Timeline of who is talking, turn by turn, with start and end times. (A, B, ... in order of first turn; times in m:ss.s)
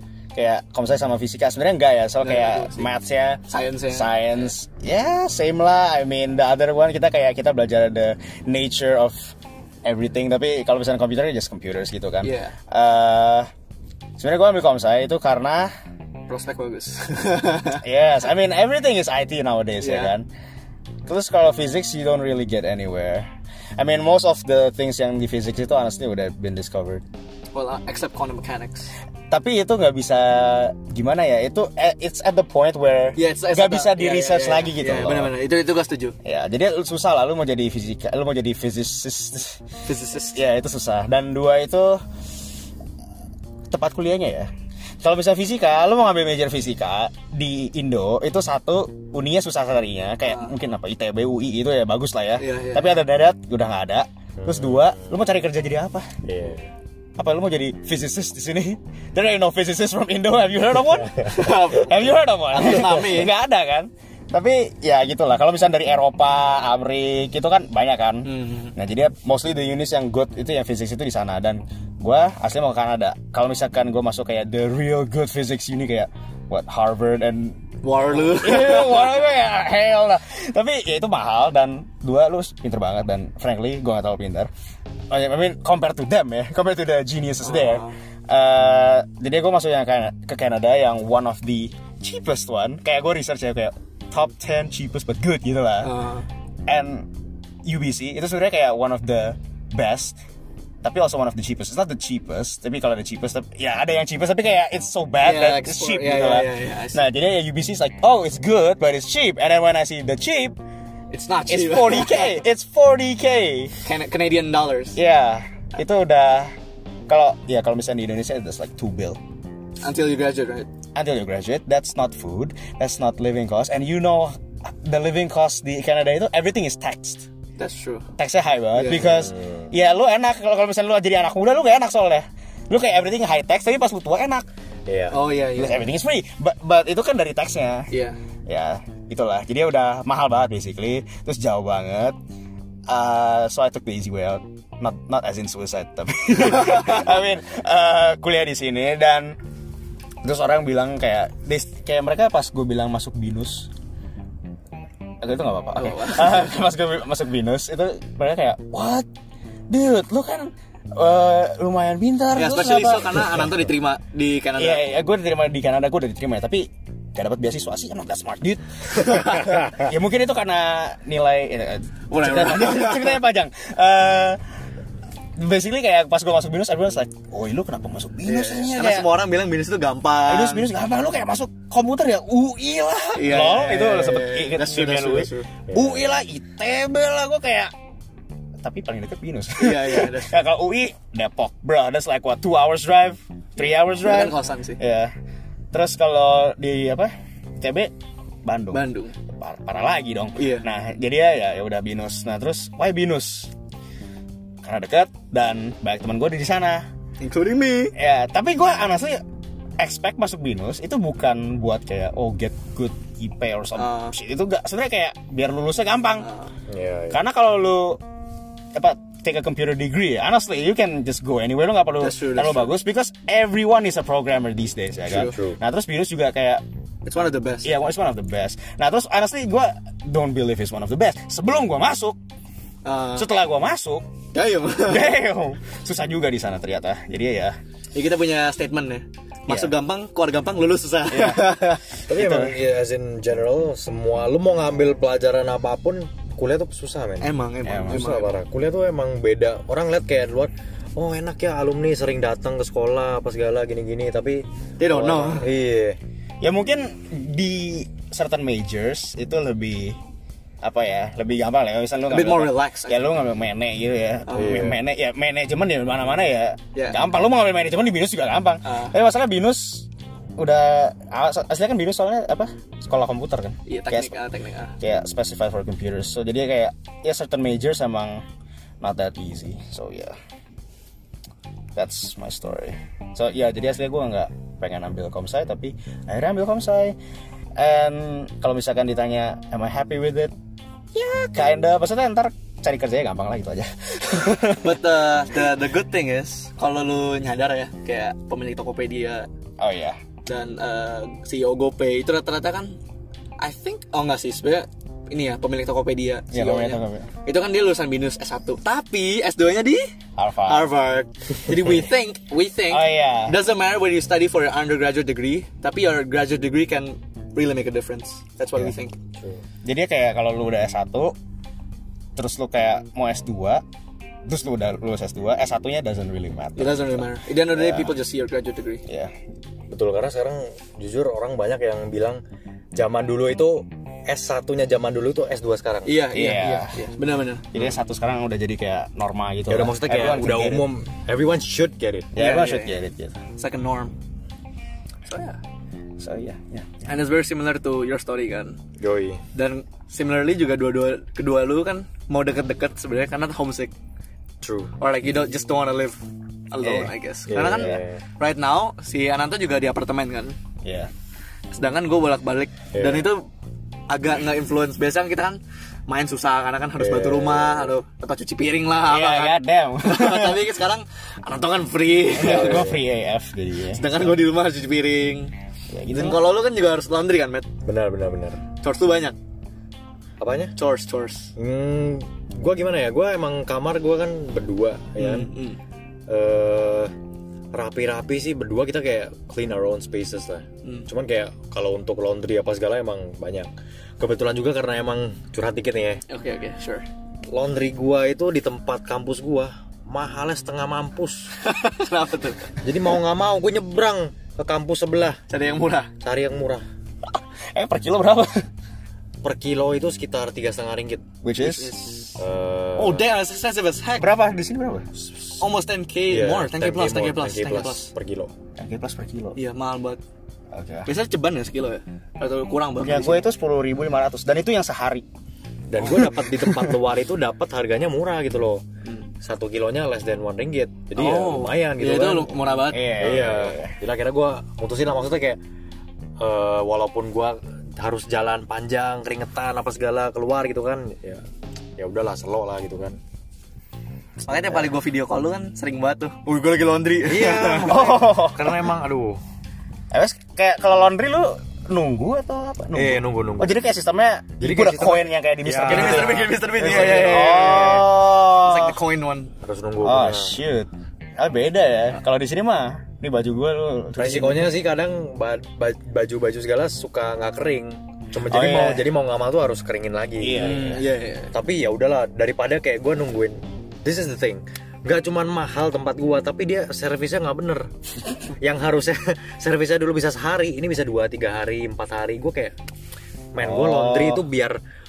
0:00.3-0:13.5 A
0:02.2-0:02.9 B
0:03.5-0:04.2 B
0:12.2-0:12.6 B
0:14.2-0:15.7 A
0:16.3-0:17.8 B
0:17.8-0:20.3 A
0:19.8-0:20.1 B
0:21.0-0:27.0 A
0:27.5-0:28.9 B
0:29.3-0:35.4 A
0:33.2-0:36.2 B
0:36.2-0:39.6 A
0:39.8-0:40.4 B
0:40.3-0:42.0 A
0:43.7-0:44.5 A
0:45.0-0:56.1 A
0:50.2-0:50.6 B
0:52.4-0:53.0 B
0:54.4-0:55.2 C
0:56.2-0:56.7 C
0:57.2-1:24.5 A
1:01.2-1:03.3 B
1:08.2-1:08.7 B
1:17.8-1:19.2 B
1:25.1-1:35.9 A
1:27.4-1:27.9 B
1:35.8-1:36.2 B
1:36.7-1:37.1 A
1:37.6-1:40.2 A
1:40.8-1:50.6 A
1:45.2-1:47.0 B
1:51.1-1:52.4 B
1:51.5-1:53.8 A
1:53.8-1:55.0 B
1:54.9-1:56.5 A
1:57.1-1:59.2 A
1:59.8-2:00.7 B
2:00.9-2:07.3 A
2:07.6-2:08.1 B
2:08.2-2:14.5 A
2:08.7-2:09.2 B
2:09.2-2:09.7 C
2:14.9-2:15.2 C
2:15.1-2:15.9 B
2:15.5-2:17.9 A
2:17.9-2:18.2 B
2:18.5-2:22.2 A
2:22.9-2:29.4 A
2:30.2-2:33.7 A
2:35.2-2:39.1 A
2:35.8-2:36.5 B
2:39.7-2:43.6 A
2:42.3-2:44.8 B
2:44.6-2:54.4 A
2:49.0-2:49.7 B
2:52.1-2:53.2 B
2:55.4-2:59.1 A
2:58.2-3:00.7 B
3:00.3-3:07.7 A
3:03.1-3:05.5 B
3:05.7-3:06.0 C
3:08.6-3:15.1 A
3:09.6-3:10.4 B
3:14.0-3:14.8 B
3:15.7-3:17.9 A
3:18.4-3:23.5 A
3:18.7-3:19.1 B
3:20.4-3:20.6 B
3:24.6-3:26.8 A
3:27.2-3:27.9 B
3:28.0-3:29.2 A
3:29.8-3:36.3 A
3:33.8-3:34.1 B
3:36.2-3:36.5 B
3:36.7-3:37.2 C
3:37.1-3:38.0 A
3:38.7-3:46.6 A
3:42.0-3:42.7 B
3:45.1-3:45.4 B
3:45.2-3:45.6 C
3:47.0-3:47.7 B
3:47.6-3:52.2 A
3:52.8-3:53.3 B
3:53.1-3:54.0 A
3:54.3-3:55.2 B
3:54.8-3:57.6 A
3:57.9-4:01.8 B
3:59.5-3:59.7 A
4:01.1-4:02.5 A
4:02.0-4:07.3 C
4:07.2-4:08.3 B
4:07.6-4:08.1 A
4:07.8-4:16.0 C
4:14.8-4:15.5 B
4:16.4-4:20.0 A
4:20.6-4:34.2 A
4:22.1-4:23.1 B
4:24.3-4:24.7 B
4:24.3-4:24.8 C
4:28.6-4:28.9 B
4:33.7-4:34.7 B
4:34.8-4:38.2 A
4:38.8-4:40.2 A
4:41.7-4:47.0 A
4:47.6-4:50.3 A
4:50.9-4:54.8 A
4:54.6-4:59.3 B
4:59.6-5:00.0 A
5:00.2-5:02.7 B
5:03.4-5:09.9 B
5:06.3-5:07.1 A
5:10.2-5:10.7 A
5:10.4-5:18.9 B
5:12.7-5:13.4 A
5:19.6-5:21.1 A
5:22.2-5:23.6 A
5:24.2-5:28.0 A
5:26.6-5:28.8 B
5:28.8-5:29.1 A
5:29.7-5:32.2 C
5:32.8-5:36.0 C
5:35.8-5:37.5 B
5:36.1-5:36.8 A
5:37.5-5:40.6 A
5:39.5-5:42.1 C
5:42.1-5:43.2 A
5:42.2-5:42.7 B
5:43.4-5:43.9 B
5:45.0-5:45.4 B
5:46.0-5:46.7 A
5:46.9-5:48.6 B
5:48.8-5:49.2 C
5:49.3-5:53.7 B
5:54.4-5:54.7 C
5:54.8-5:56.0 B
5:56.5-6:00.4 B
5:56.6-5:56.9 A
5:57.3-5:58.0 C
5:57.5-5:57.8 A
6:00.6-6:00.9 A
6:01.5-6:03.2 B
6:02.7-6:03.1 C
6:03.9-6:12.7 B
6:06.8-6:07.7 C
6:08.8-6:10.5 A
6:12.1-6:14.2 A
6:12.2-6:12.8 C
6:13.7-6:15.3 B
6:15.7-6:16.2 A
6:15.9-6:17.5 B
6:17.6-6:18.4 C
6:18.6-6:19.2 B
6:20.2-6:20.5 C
6:20.6-6:21.3 B
6:21.4-6:25.3 C
6:25.0-6:25.6 B
6:26.1-6:26.9 C
6:27.5-6:33.5 C
6:34.0-6:36.0 C
6:36.1-6:36.8 B
6:37.3-6:41.3 C
6:41.4-6:42.4 B
6:42.6-6:45.2 C
6:45.3-6:45.9 B
6:46.0-6:46.6 C
6:47.0-6:48.4 A
6:49.2-6:51.0 C
6:51.2-6:51.8 A
6:51.4-6:52.1 B
6:52.2-6:53.0 C
6:52.8-6:54.1 B
6:54.0-6:55.4 A
6:55.4-6:57.9 B
6:56.1-6:58.3 C
6:58.6-6:59.4 A
6:59.4-7:00.0 B
7:00.5-7:00.9 A
7:00.9-7:03.3 B
7:02.8-7:05.0 A
7:05.7-7:08.6 C
7:05.8-7:06.8 A
7:09.2-7:12.4 C
7:11.0-7:13.0 B
7:12.7-7:13.7 A
7:13.0-7:15.4 C
7:16.2-7:21.2 C
7:21.8-7:23.0 C
7:24.2-7:27.8 B
7:27.0-7:29.2 C
7:27.6-7:28.5 A
7:29.9-7:38.8 A
7:32.7-7:33.6 C
7:34.4-7:37.8 C
7:35.6-7:39.3 B
7:39.4-7:40.4 C
7:39.8-7:44.6 A
7:44.0-7:50.8 C
7:48.3-7:48.9 A
7:50.2-7:50.8 A
7:50.3-7:51.3 B
7:51.3-7:57.7 C
7:58.4-8:02.5 C
8:03.3-8:04.6 C
8:03.4-8:04.2 A